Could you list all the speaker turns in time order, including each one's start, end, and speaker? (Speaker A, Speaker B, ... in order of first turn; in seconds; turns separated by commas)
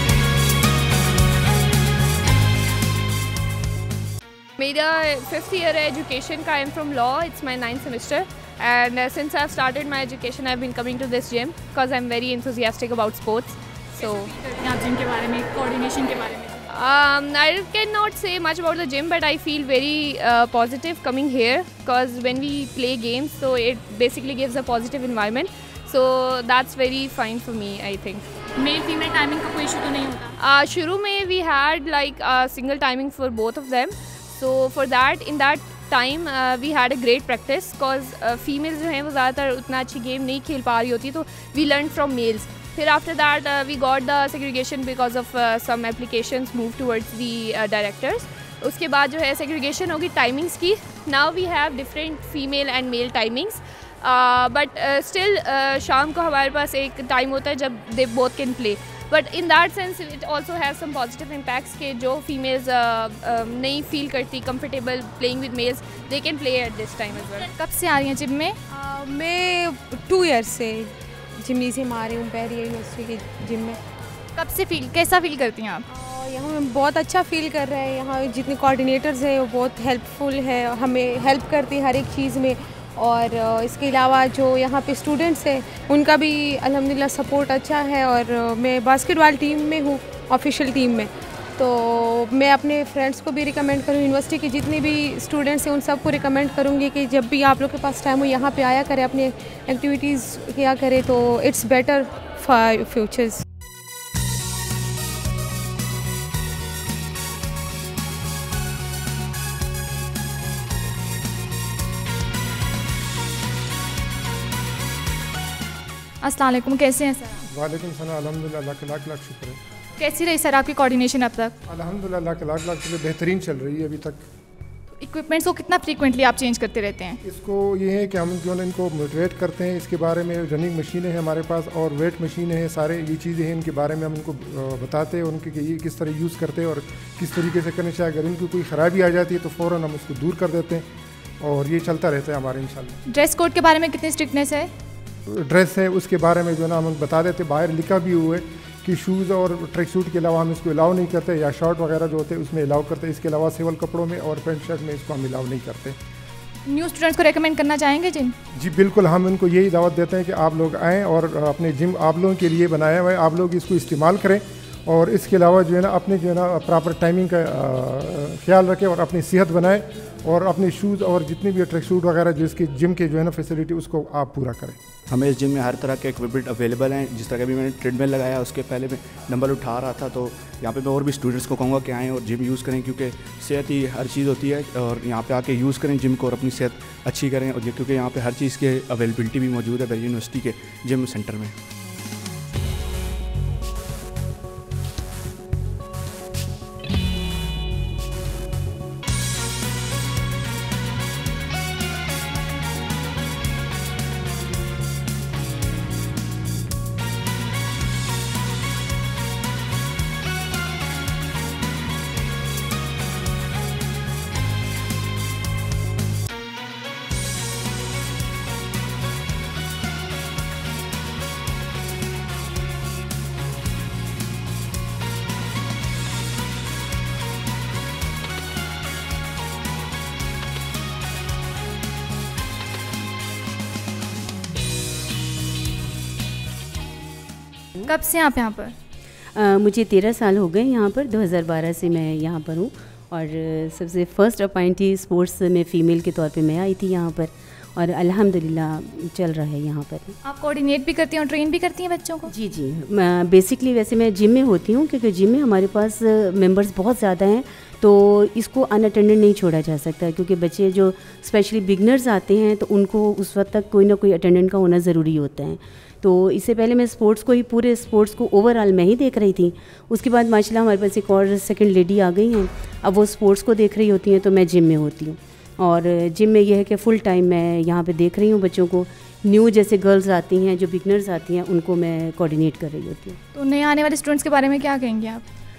Speaker A: 4.6-14.3, Speaker B: 13.9-16.7, Speaker A: 16.7-28.2, Speaker B: 28.6-30.3, Speaker A: 30.4-67.5, Speaker B: 67.5-68.6, Speaker C: 68.7-70.9, Speaker C: 71.4-73.8, Speaker B: 74.4-75.8, Speaker C: 75.9-103.4, Speaker B: 116.2-117.4, Speaker D: 117.5-119.6, Speaker B: 120.0-121.6, Speaker D: 121.7-124.2, Speaker B: 125.0-127.2, Speaker D: 127.2-140.9, Speaker D: 141.4-143.0, Speaker B: 143.1-144.7, Speaker D: 145.3-156.0, Speaker B: 156.7-158.3, Speaker D: 158.5-174.8, Speaker E: 175.1-191.5, Speaker B: 237.8-238.7, Speaker F: 239.3-250.2, Speaker B: 250.2-252.3, Speaker F: 252.3-283.2, Speaker B: 283.4-285.2